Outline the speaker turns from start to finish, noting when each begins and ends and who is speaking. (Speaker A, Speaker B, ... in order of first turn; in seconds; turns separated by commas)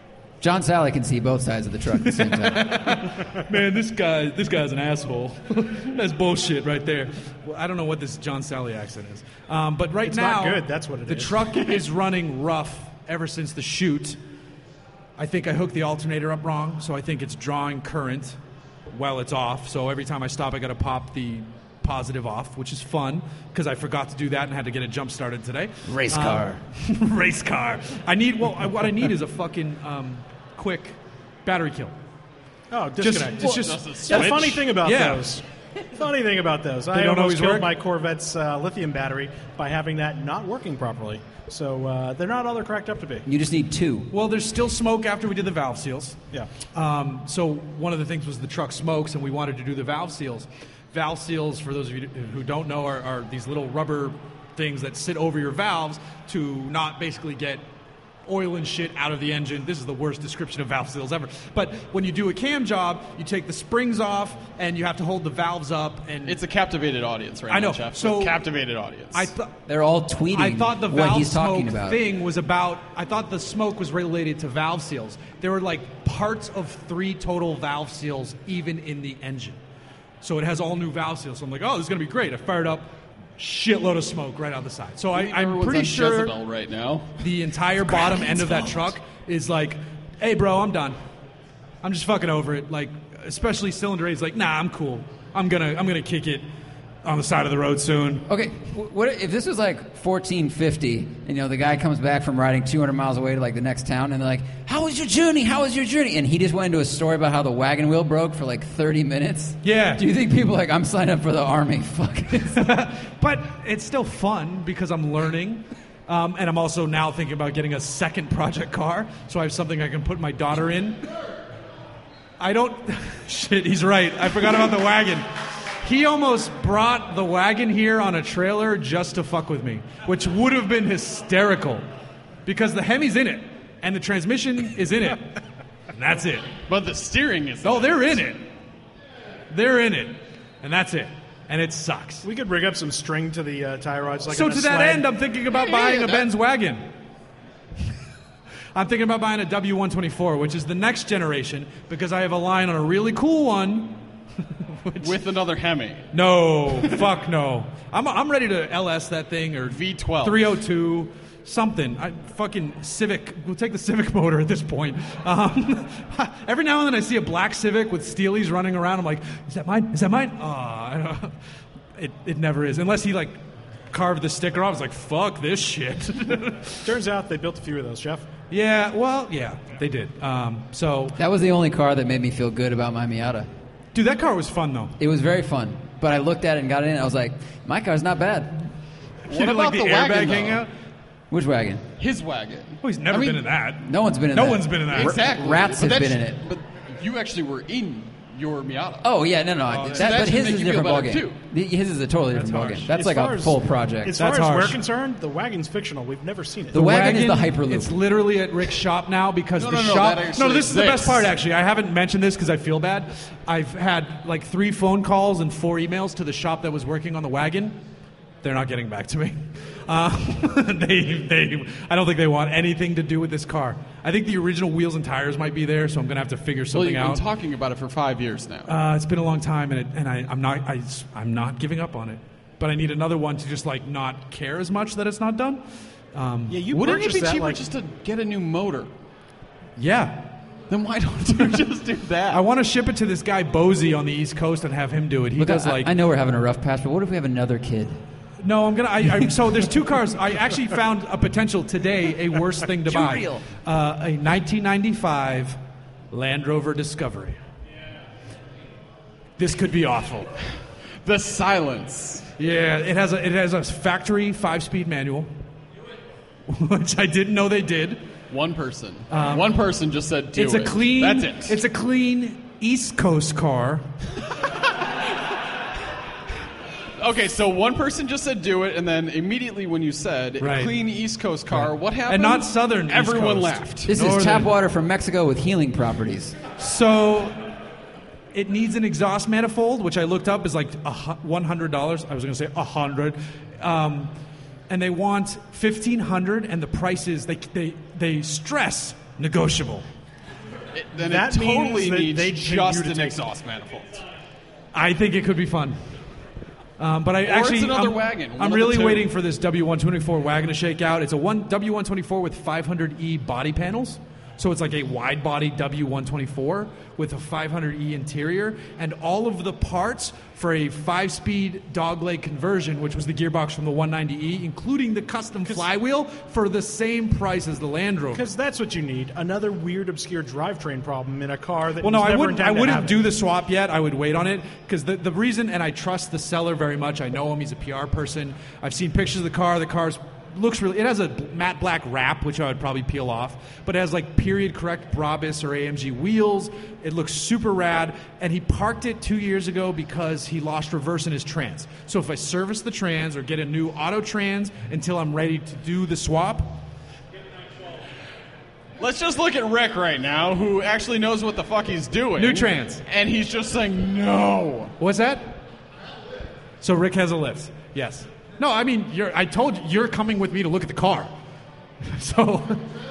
Speaker A: 0.4-3.0, Speaker B: 2.0-14.2, Speaker C: 10.0-11.7, Speaker B: 15.2-18.4, Speaker B: 18.9-31.9, Speaker A: 25.9-26.6, Speaker C: 32.7-43.2, Speaker B: 33.0-35.3, Speaker D: 33.4-34.6, Speaker B: 36.9-37.7, Speaker A: 43.3-44.1, Speaker B: 44.1-46.2, Speaker B: 46.7-57.6, Speaker B: 58.3-66.4, Speaker D: 66.2-69.3, Speaker B: 67.5-68.4, Speaker B: 69.1-69.5, Speaker A: 69.7-72.0, Speaker B: 70.3-79.6, Speaker B: 80.2-86.4, Speaker D: 85.1-87.2, Speaker B: 87.2-91.0, Speaker D: 88.1-88.6, Speaker B: 91.8-96.5, Speaker B: 97.0-98.3, Speaker A: 98.3-112.6, Speaker B: 109.6-110.0, Speaker B: 112.4-121.0, Speaker B: 122.4-125.3, Speaker B: 125.8-131.8, Speaker B: 132.4-135.4, Speaker B: 135.9-136.5, Speaker D: 136.7-138.1, Speaker B: 137.6-138.4, Speaker B: 139.5-142.2, Speaker C: 142.2-145.1, Speaker B: 144.3-146.8, Speaker B: 148.7-154.0, Speaker B: 154.7-155.2, Speaker D: 155.0-156.1, Speaker B: 156.1-171.3, Speaker D: 159.7-160.5, Speaker B: 171.9-173.4, Speaker B: 173.9-176.8, Speaker C: 176.8-178.3, Speaker B: 178.5-181.2, Speaker A: 181.2-183.5, Speaker B: 183.9-184.9, Speaker A: 185.0-188.7, Speaker B: 189.3-190.7, Speaker D: 189.3-190.6, Speaker A: 191.3-191.8, Speaker D: 192.0-193.4, Speaker B: 192.8-195.2, Speaker A: 193.8-196.4, Speaker D: 194.9-199.1, Speaker A: 199.0-204.2, Speaker B: 199.7-200.3, Speaker D: 199.9-201.4, Speaker B: 202.3-202.8, Speaker C: 202.8-206.8, Speaker B: 204.2-204.8, Speaker A: 206.7-208.0, Speaker B: 206.7-217.8, Speaker D: 209.6-211.3, Speaker B: 218.4-227.2, Speaker D: 226.7-228.7, Speaker B: 228.7-235.6, Speaker B: 236.1-236.7, Speaker C: 236.5-237.6, Speaker D: 236.7-238.9, Speaker B: 239.8-240.4, Speaker D: 240.7-242.4, Speaker B: 241.4-241.6, Speaker B: 242.3-245.9, Speaker A: 245.4-248.0, Speaker B: 248.4-255.6, Speaker A: 252.9-253.4, Speaker B: 256.1-257.4, Speaker B: 259.4-260.3, Speaker D: 261.0-262.3, Speaker B: 262.4-265.3, Speaker B: 266.5-268.0, Speaker D: 268.3-271.6, Speaker B: 269.1-269.6, Speaker B: 270.3-273.8, Speaker D: 277.0-283.9, Speaker B: 280.4-280.7, Speaker B: 281.5-284.5, Speaker A: 283.9-286.4, Speaker B: 286.6-287.4, Speaker B: 288.3-294.1, Speaker B: 294.7-299.8, Speaker D: 300.7-304.0, Speaker C: 301.0-303.2, Speaker B: 304.7-305.8, Speaker B: 306.8-328.3, Speaker D: 307.2-309.1, Speaker C: 328.1-333.0, Speaker B: 331.8-356.6, Speaker D: 358.8-364.7, Speaker B: 362.2-362.8, Speaker B: 364.8-365.4, Speaker B: 366.6-371.1, Speaker B: 371.8-372.7